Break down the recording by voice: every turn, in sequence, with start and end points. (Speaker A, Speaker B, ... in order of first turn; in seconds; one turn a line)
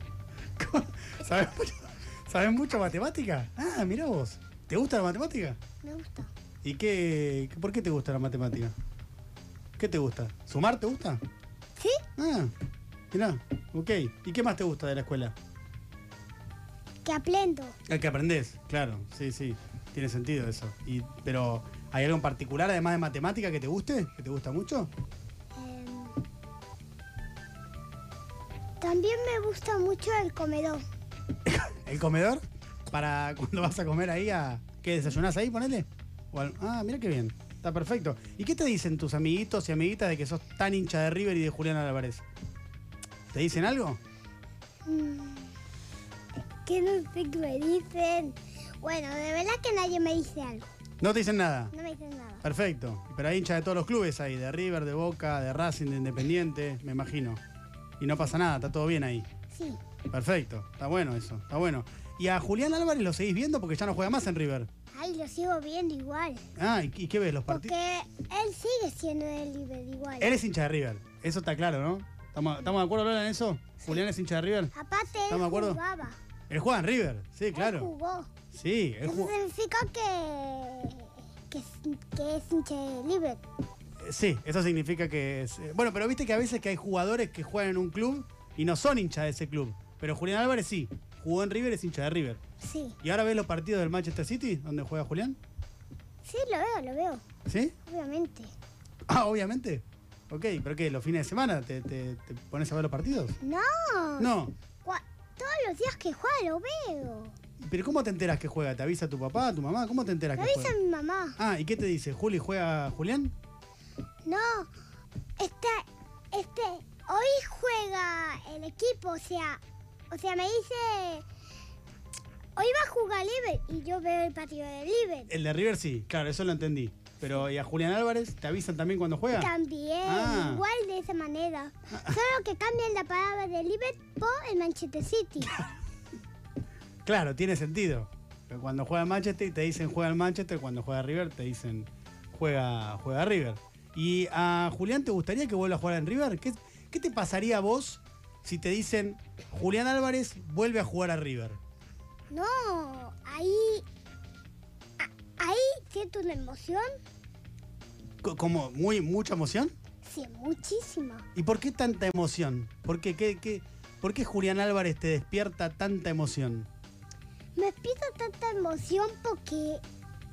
Speaker A: 0.6-5.6
Speaker B: 5.8-6.3
Speaker A: 6.6-8.7
Speaker A: 9.8-11.2
Speaker B: 11.8-12.0
Speaker A: 12.2-12.5
Speaker A: 13.1-15.3
Speaker B: 17.1-17.8
Speaker A: 17.9-24.9
Speaker B: 25.6-26.2
Speaker B: 28.8-30.8
Speaker A: 31.4-42.2
Speaker A: 43.3-44.0
Speaker B: 44.9-45.5
Speaker B: 46.5-50.7
Speaker A: 51.0-51.7
Speaker B: 51.7-52.4
Speaker A: 52.4-57.4
Speaker A: 58.0-59.3
Speaker B: 59.5-59.8
Speaker A: 60.1-64.7
Speaker B: 64.9-66.5
Speaker A: 66.6-67.7
Speaker B: 67.5-70.3
Speaker A: 70.2-74.7
Speaker B: 74.7-76.2
Speaker A: 75.3-75.8
Speaker A: 76.5-77.9
Speaker B: 77.5-78.3
Speaker A: 78.5-79.3
Speaker B: 79.0-83.4
Speaker A: 84.0-92.4
Speaker B: 92.6-93.0
Speaker A: 93.0-95.4
Speaker B: 96.2-97.2
Speaker A: 97.5-97.7
Speaker B: 97.9-98.5
Speaker A: 99.1-103.4
Speaker B: 103.4-104.3
Speaker A: 104.2-104.5
Speaker B: 104.8-107.3
Speaker A: 107.6-110.7
Speaker B: 110.4-111.4
Speaker A: 111.4-113.3
Speaker B: 114.3-114.7
Speaker B: 115.4-121.2
Speaker B: 122.6-125.3
Speaker A: 125.3-129.5
Speaker B: 129.3-135.6
Speaker A: 130.0-130.6
Speaker A: 137.1-151.6
Speaker B: 152.3-153.8
Speaker B: 155.0-156.9
Speaker A: 158.2-159.7
Speaker B: 160.0-161.3
Speaker A: 161.4-166.7
Speaker B: 167.6-169.8